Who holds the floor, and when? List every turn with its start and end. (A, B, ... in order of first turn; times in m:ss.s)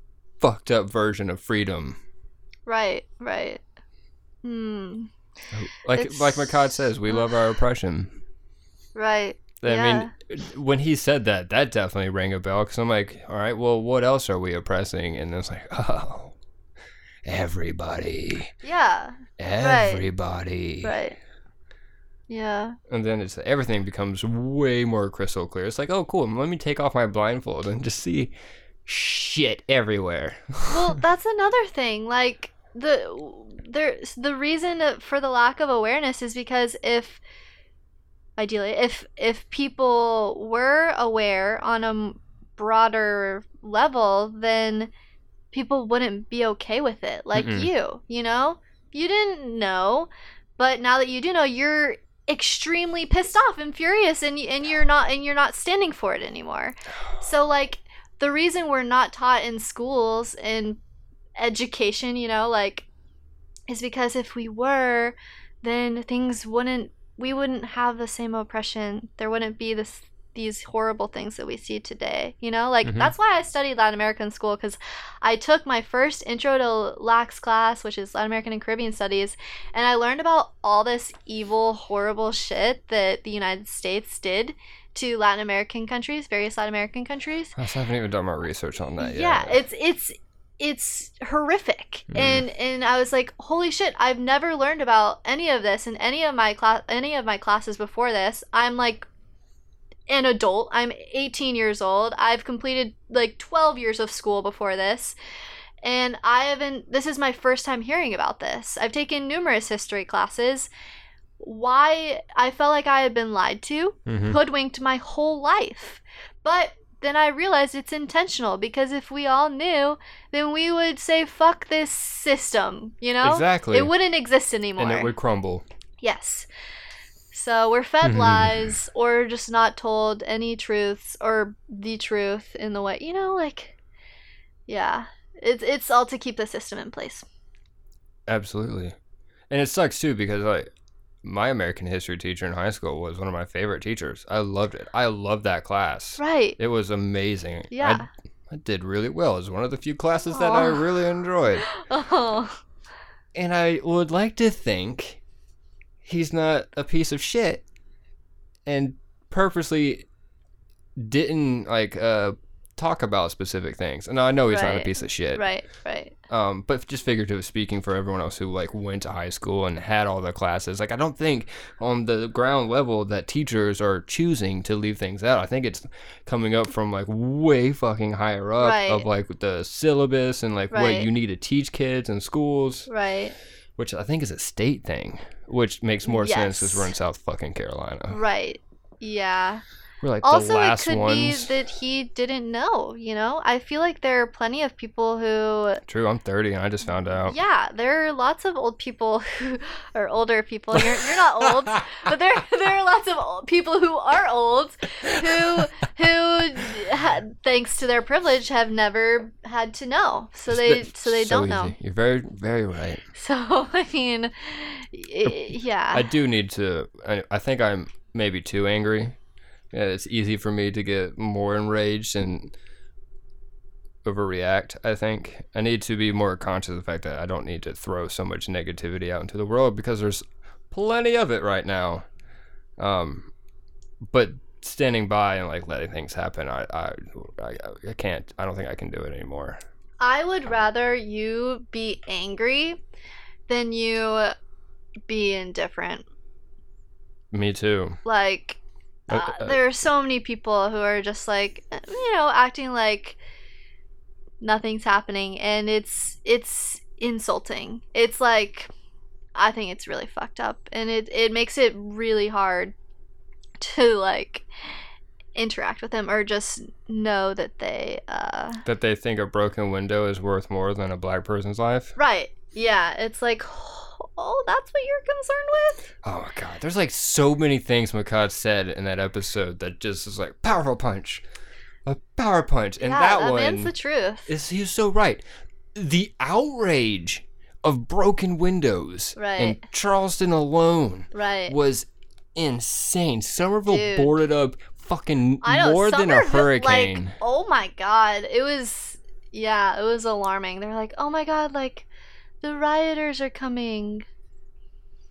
0:00.4-0:02.0 A
0:02.7-0:03.6 B
0:04.4-0:05.1 B
0:05.5-0:08.2 A
0:06.0-0:07.3 B
0:09.0-0:10.1 B
0:09.6-0:16.4 A
0:17.2-0:18.5 A
0:18.6-0:20.1 B
0:19.4-0:21.0 A
0:20.8-0:21.2 B
0:22.3-0:22.8 B
0:22.9-0:28.3 A
0:28.9-0:31.0 A
0:30.7-0:37.2 B
0:38.4-0:44.9 B
0:45.5-1:00.8 B
0:47.4-0:47.7 A
1:01.4-1:02.9 B
1:03.7-1:27.6 B
1:12.8-1:13.1 A
1:27.6-1:29.6 A
1:29.0-1:39.1 B
1:32.1-1:32.5 A
1:40.1-1:45.2 B
1:45.8-1:50.7 B
1:51.4-2:05.1 B
1:54.1-1:54.4 A
2:03.2-2:03.9 A
2:04.8-2:05.6 A
2:06.0-2:06.5 B
2:07.3-2:13.8 B
2:08.0-2:08.7 A
2:14.7-2:17.2 B
2:18.3-2:19.0 A
2:19.5-2:20.7 A
2:21.2-2:31.7 A
2:26.2-2:26.6 B
2:27.7-2:28.1 B
2:30.3-2:30.9 B
2:31.6-2:32.6 B
2:33.4-2:35.2 A
2:36.0-2:37.6 A
2:38.7-2:40.1 A
2:41.0-2:45.4 A
2:44.5-2:46.2 B
2:46.3-3:02.9 A
2:58.6-2:59.1 B
3:00.7-3:01.1 B
3:02.9-3:03.4 B
3:03.8-3:08.2 A
3:06.0-3:06.9 B
3:08.1-3:09.6 B
3:10.0-3:11.5 A
3:10.2-3:15.8 B
3:15.9-3:17.4 A
3:17.2-3:31.8 B
3:20.8-3:22.1 A
3:25.0-3:25.7 A
3:30.5-3:33.0 A
3:33.2-3:36.1 B
3:35.9-3:39.2 A
3:39.7-3:42.5 A
3:44.0-3:52.0 A
3:52.8-3:53.3 A
3:54.1-3:59.6 A
4:00.0-4:02.8 B
4:03.5-4:04.3 B
4:05.1-4:06.1 B
4:07.3-4:08.0 A
4:08.0-4:13.2 B
4:09.1-4:09.6 A
4:14.4-4:18.7 B
4:19.4-4:22.7 B
4:23.6-4:24.5 B
4:25.4-4:28.6 B
4:28.6-4:32.0 A
4:32.0-4:35.9 B
4:36.0-4:41.2 A
4:41.9-4:43.7 A
4:42.8-4:44.3 B
4:44.3-4:45.2 A
4:45.8-4:57.2 A
4:49.2-4:49.6 B
4:51.1-4:51.6 B
4:53.7-4:54.1 B
4:55.4-5:01.9 B
5:02.4-5:04.1 B